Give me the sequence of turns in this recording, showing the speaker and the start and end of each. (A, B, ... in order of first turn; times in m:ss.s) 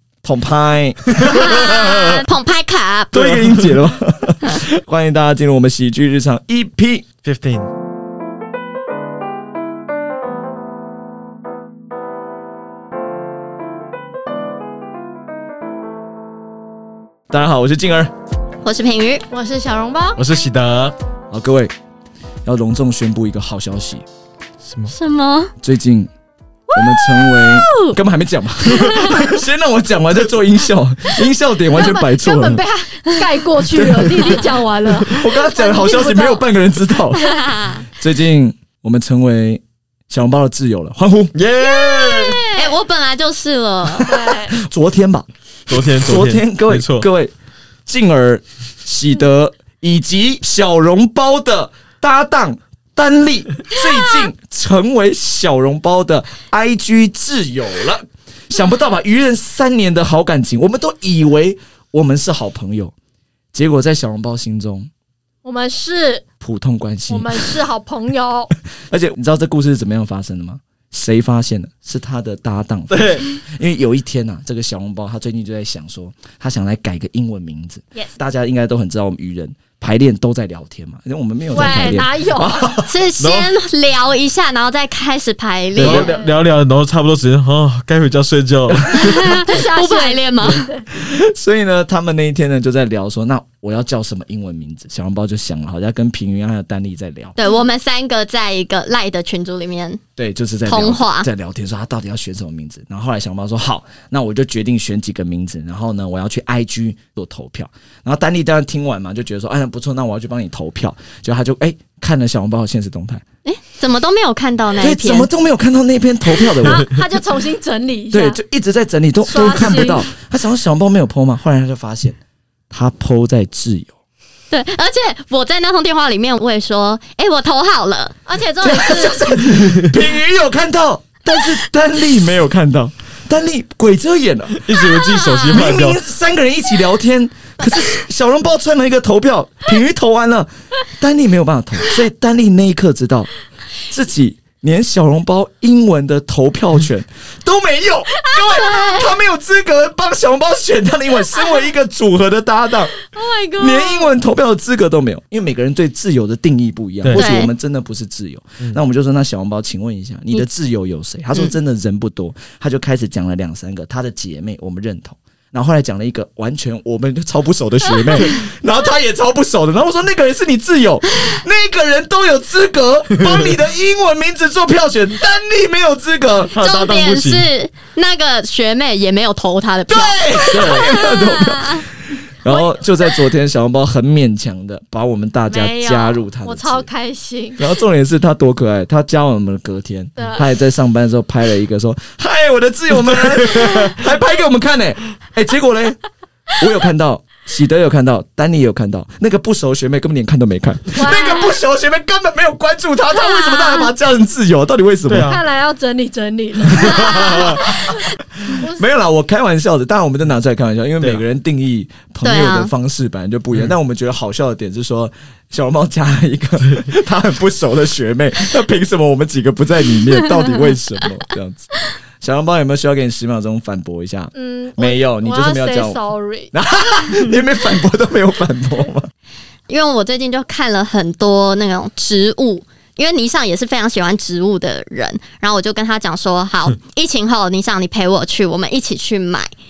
0:00.2-0:01.7 A
0:01.2-0:01.9 B
0:01.3-0:03.3 C
0:03.1-0:07.1 A
0:03.2-0:03.8 B
0:07.2-0:07.7 B
0:17.3-0:18.1 A
0:18.6-0:19.2 C
0:19.3-0:20.2 D
0:20.2-0:21.0 B
0:21.3-0:21.7 A
0:22.4-0:24.0 A
0:24.6-0:24.9 B
0:24.9-0:25.5 C
0:25.6-0:26.1 A
0:26.7-0:28.0 C
0:26.7-0:32.6 A
0:28.7-0:29.3 C
0:31.7-0:36.4 D
0:35.1-0:37.3 A
0:37.2-0:37.8 C
0:37.9-0:41.3 A
0:41.3-0:42.4 B
0:41.7-0:44.4 C
0:42.2-0:42.8 D
0:44.0-0:44.6 D
0:44.6-0:45.3 A
0:45.7-0:47.1 B
0:46.0-0:47.3 A
0:47.9-1:02.9 A
1:03.5-1:04.9 A
1:05.4-1:06.2 D
1:06.4-1:07.5 A
1:07.1-1:08.5 D
1:08.9-1:22.9 A
1:12.9-1:13.3 B
1:21.5-1:22.7 D
1:22.8-1:26.1 C
1:23.2-1:23.5 B
1:25.8-1:29.5 B
1:25.8-1:26.4 D
1:29.0-1:30.7 C
1:29.1-1:30.8 D
1:30.9-1:37.4 A
1:37.4-1:40.0 C
1:37.4-1:37.7 D
1:40.2-1:53.2 A
1:40.7-1:41.3 C
1:53.4-1:55.3 C
1:54.8-1:56.9 A
1:56.6-1:58.4 D
1:58.1-2:02.2 A
1:59.2-2:00.1 D
2:02.7-2:04.0 A
2:04.5-2:08.2 C
2:08.3-2:09.2 D
2:08.6-2:14.6 A
2:14.6-2:16.0 B
2:14.8-2:15.7 C
2:15.5-2:23.3 A
2:23.8-2:33.0 A
2:28.4-2:29.1 D
2:33.1-2:34.1 D
2:33.6-2:56.5 A
2:37.0-2:37.3 B
2:37.1-2:37.5 C
2:53.2-2:53.6 B
2:56.5-2:57.5 B
2:56.6-3:01.8 C
2:59.9-3:01.9 A
3:00.5-3:00.9 B
3:02.4-3:06.9 A
3:02.5-3:02.8 D
3:05.5-3:07.6 D
3:07.6-3:16.0 A
3:10.2-3:10.4 D
3:13.0-3:14.0 B
3:16.6-3:25.4 A
3:21.0-3:21.6 D
3:23.2-3:23.9 C
3:25.1-3:25.4 B
3:25.2-3:28.8 D
3:26.8-3:27.7 B
3:26.9-3:27.5 A
3:28.5-3:46.0 A
3:32.2-3:32.7 C
3:36.6-3:36.9 B
3:44.3-3:46.5 D
3:46.5-3:49.1 A
3:49.7-3:59.5 C